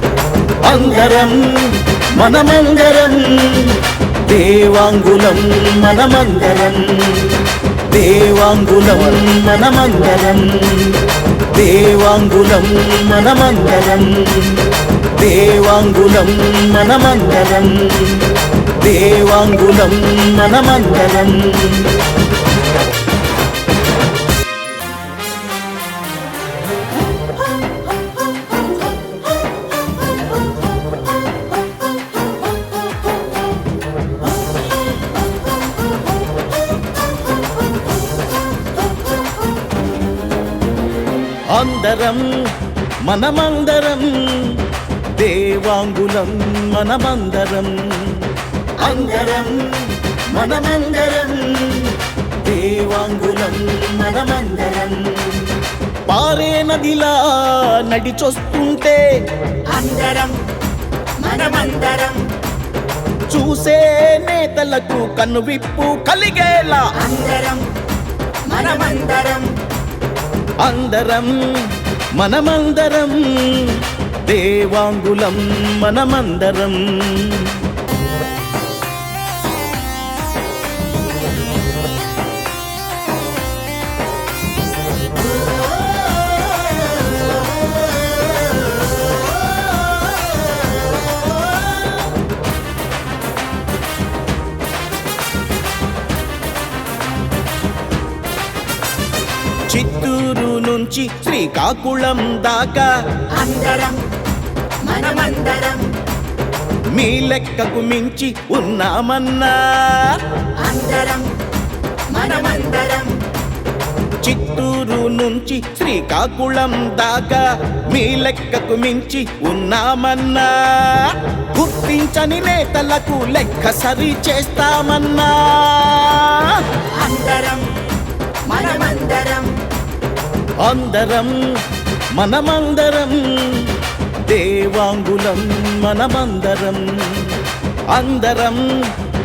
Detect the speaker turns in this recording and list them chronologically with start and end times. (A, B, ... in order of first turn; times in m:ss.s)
0:00.6-0:22.0 A
0:41.5-0:42.5 A
0:43.0-0:55.5 A
0:56.1-0:59.0 A
1:01.2-1:02.0 B
1:03.3-1:07.1 A
1:08.5-1:09.4 B
1:10.6-1:17.6 A
1:39.7-1:42.9 A
1:44.9-1:45.6 B
1:46.9-1:50.2 A
1:50.9-1:51.2 B
1:52.2-1:53.0 B
1:54.2-2:06.6 A
2:07.0-2:07.7 B
2:08.4-2:09.5 B
2:10.6-2:11.4 A
2:12.1-2:17.4 A
2:17.9-2:18.9 A